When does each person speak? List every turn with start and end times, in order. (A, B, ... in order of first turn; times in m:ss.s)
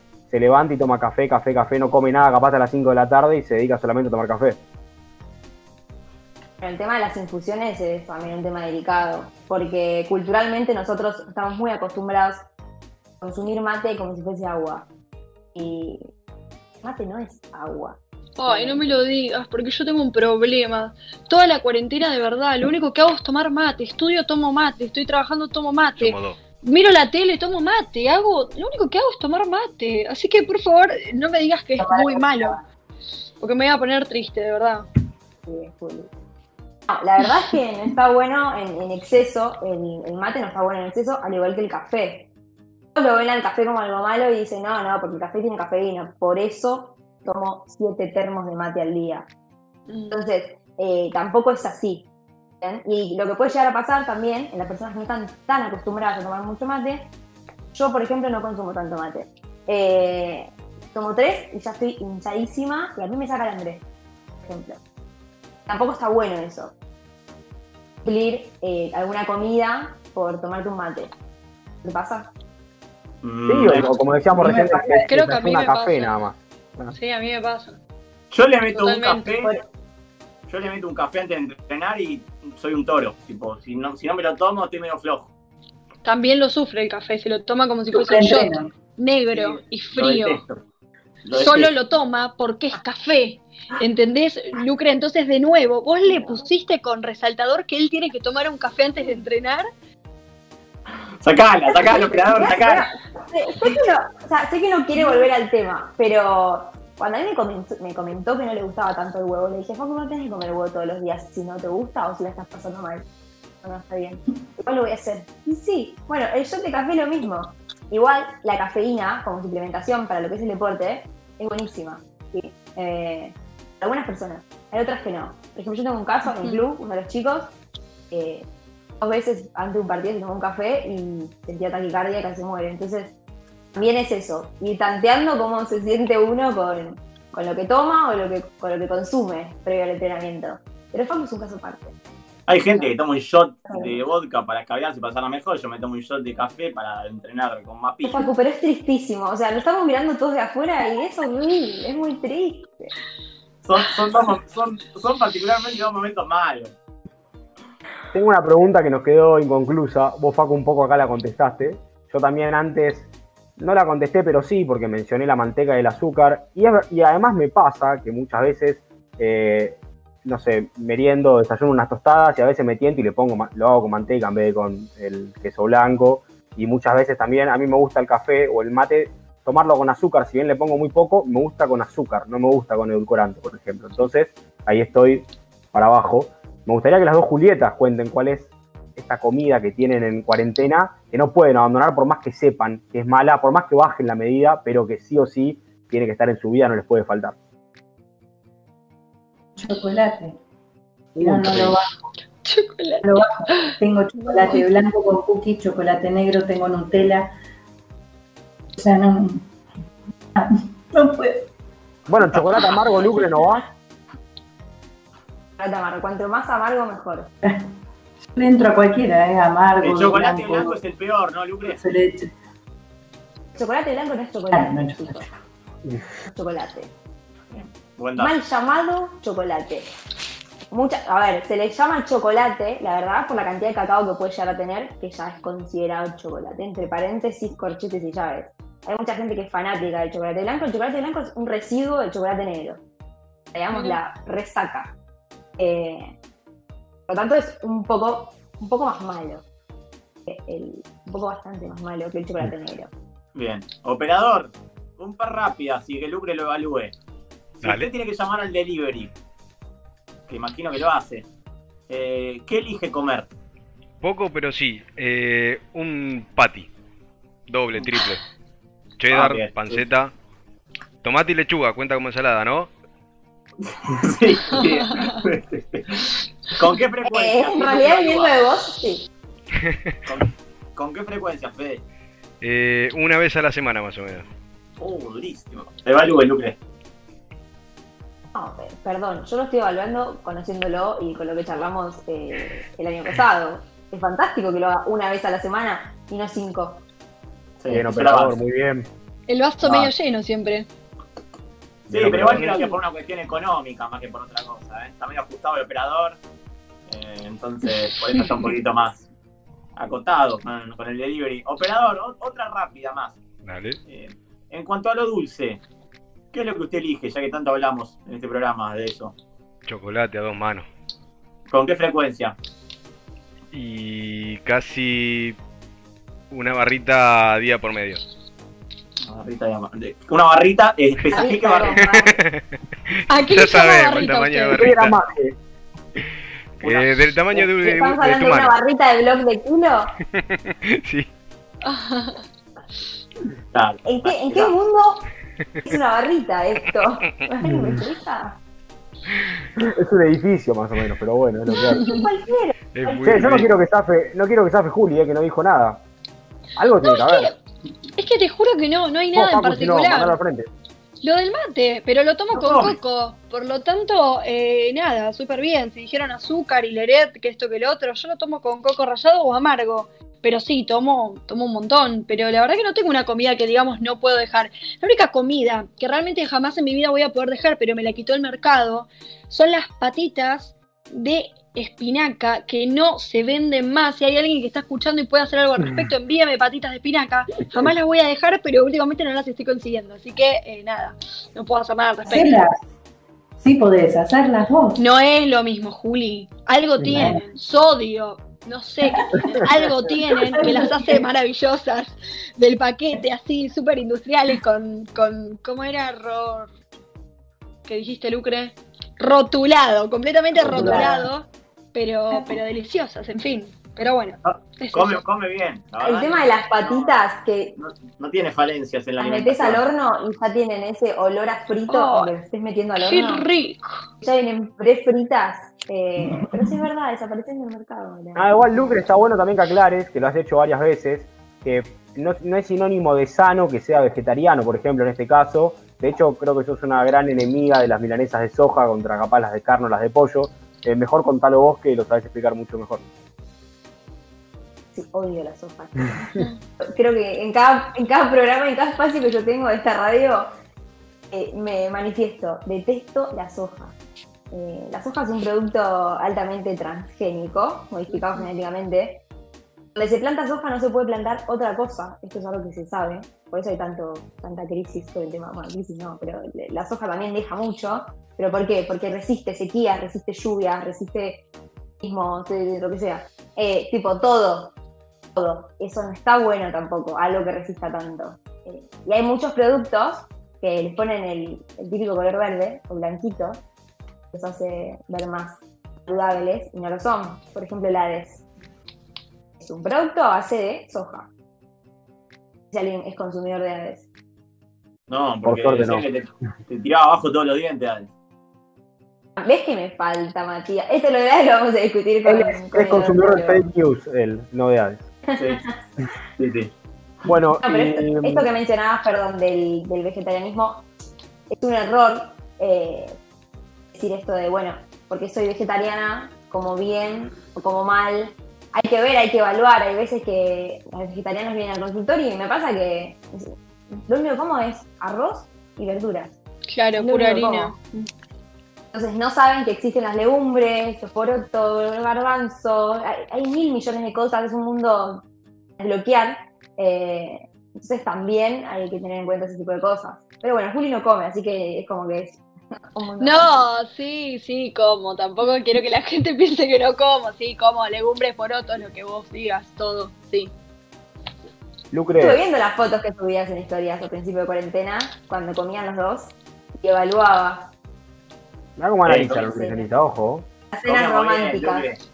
0:00.3-0:04.6 A
0:06.6-0:12.4 B
0:13.2-0:14.9 B
0:15.6-0:16.1 B
0:16.8-0:19.0 B
0:18.4-0:32.6 C
0:26.0-0:26.4 D
0:31.8-0:32.6 E
0:33.4-0:34.9 C
0:35.4-0:36.1 B
0:36.9-0:42.3 B
0:43.0-0:49.3 B
0:49.9-0:50.2 C
0:50.1-0:52.0 B
0:52.6-0:57.1 B
0:57.7-1:03.8 B
1:04.4-1:04.8 B
1:05.7-1:06.7 B
1:08.0-1:11.1 B
1:11.8-1:12.3 B
1:13.2-1:14.0 F
1:13.4-1:17.0 A
1:14.3-1:15.1 E
1:15.1-1:16.1 C
1:16.9-1:17.8 C
1:18.3-1:19.6 F
1:18.7-1:19.6 C
1:20.5-1:25.3 F
1:26.0-1:30.4 C
1:27.9-1:28.7 E
1:29.3-1:30.6 F
1:31.2-1:31.7 F
1:31.3-1:39.7 C
1:36.1-1:36.4 B
1:41.2-1:42.9 F
1:41.7-1:53.0 B
1:53.6-2:07.5 B
2:08.1-2:08.4 B
2:09.0-2:13.1 B
2:13.8-2:21.9 B
2:22.5-2:28.3 F
2:23.7-2:24.0 B
2:28.0-2:32.9 B
2:33.6-2:36.7 F
2:38.1-3:17.4 A
3:19.6-3:20.4 E
3:21.2-3:21.7 A
3:21.2-3:21.9 E
3:22.4-3:23.7 C
3:23.0-3:27.3 E
3:24.3-3:24.6 C
3:28.8-3:29.4 E
3:30.4-3:31.5 E
3:32.1-3:33.7 A
3:32.3-3:32.8 F
3:35.6-3:37.3 B
3:38.3-3:40.8 E
3:39.8-3:41.8 F
3:41.7-3:42.3 E
3:43.6-3:45.3 B
3:44.5-3:45.2 E
3:46.3-3:46.9 B
3:47.5-3:48.4 F
3:48.2-3:49.9 B
3:50.7-4:02.8 B
4:03.5-4:04.9 B
4:03.7-4:04.0 C
4:05.6-4:06.1 B
4:07.1-4:09.4 B
4:10.3-4:12.9 B
4:13.4-4:16.9 F
4:17.6-4:19.1 F
4:17.6-4:17.9 D
4:20.3-4:21.3 F
4:21.9-4:23.3 F
4:24.0-4:26.7 D
4:27.5-4:28.2 D
4:29.0-4:30.1 D
4:29.1-4:29.8 F
4:31.0-4:32.7 D
4:33.6-4:38.3 F
4:37.0-4:39.1 B
4:40.0-4:41.8 F
4:42.4-4:44.3 D
4:44.8-4:46.6 F
4:48.4-4:56.8 B
4:57.6-4:58.4 F
4:57.7-4:58.9 A
4:59.3-5:00.7 C
4:59.6-4:59.9 F
5:01.9-5:02.6 A
5:01.9-5:06.2 F
5:06.9-5:09.1 F
5:09.8-5:13.2 F
5:13.4-5:13.8 D
5:13.9-5:15.6 F
5:16.3-5:19.1 F
5:19.7-5:20.7 D
5:21.5-5:22.4 F
5:23.5-5:25.4 D
5:26.3-5:28.0 D
5:29.0-5:31.8 F
5:31.1-5:32.2 B
5:31.8-5:35.1 D
5:33.1-5:34.7 C
5:34.5-5:35.4 A
5:36.6-5:38.6 D
5:36.6-5:37.4 F
5:37.6-5:39.9 B
5:40.2-5:41.1 D
5:41.7-5:42.2 C
5:43.5-5:44.5 F
5:43.9-5:45.0 B
5:45.6-5:48.4 B
5:47.5-5:47.8 A
5:49.6-5:51.9 A
5:51.7-5:52.0 C
5:51.8-5:53.4 B
5:52.7-5:53.5 D
5:53.0-5:55.8 A
5:56.6-5:57.3 A
5:56.8-5:57.4 C
5:58.0-6:00.2 C
5:59.1-6:00.5 A
6:01.0-6:32.4 C
6:02.3-6:02.8 F
6:32.0-6:32.5 E
6:33.4-6:34.8 E
6:34.8-6:46.5 C
6:36.9-6:37.2 E
6:38.8-6:39.4 E
6:40.0-6:41.0 E
6:47.7-6:55.0 C
6:50.4-6:50.9 F
6:50.5-6:51.1 E
6:54.2-6:57.0 F
6:55.8-6:57.6 B
6:57.6-6:59.6 F
6:59.0-7:03.2 B
7:01.7-7:02.1 C
7:02.8-7:03.8 C
7:04.0-7:08.8 B
7:06.0-7:06.4 E
7:08.1-7:22.8 A
7:24.7-7:30.3 B
7:31.1-7:33.7 B
7:34.3-7:39.0 B
7:39.7-7:51.2 B
7:51.8-7:54.5 B
7:55.2-8:03.4 B
8:04.1-8:08.2 B
8:09.4-8:11.1 B
8:12.5-8:13.8 B
8:14.9-8:17.9 F
8:15.2-8:15.9 A
8:19.2-8:23.5 B
8:22.0-8:24.8 A
8:25.1-8:25.5 B
8:25.2-8:25.4 F
8:26.2-8:26.5 F
8:27.0-8:28.3 A
8:27.4-8:30.6 B
8:31.3-8:33.0 B
8:33.7-8:46.1 B
8:46.5-8:47.9 C
8:46.8-8:47.5 B
8:48.7-8:55.0 B
8:55.6-9:02.2 B
9:02.7-9:03.5 B
9:03.0-9:10.3 C
9:11.7-9:12.2 A
9:12.0-9:17.5 B
9:18.6-9:20.3 A
9:18.9-9:19.2 F
9:19.1-9:19.6 B
9:20.5-9:21.6 B
9:20.6-9:21.8 F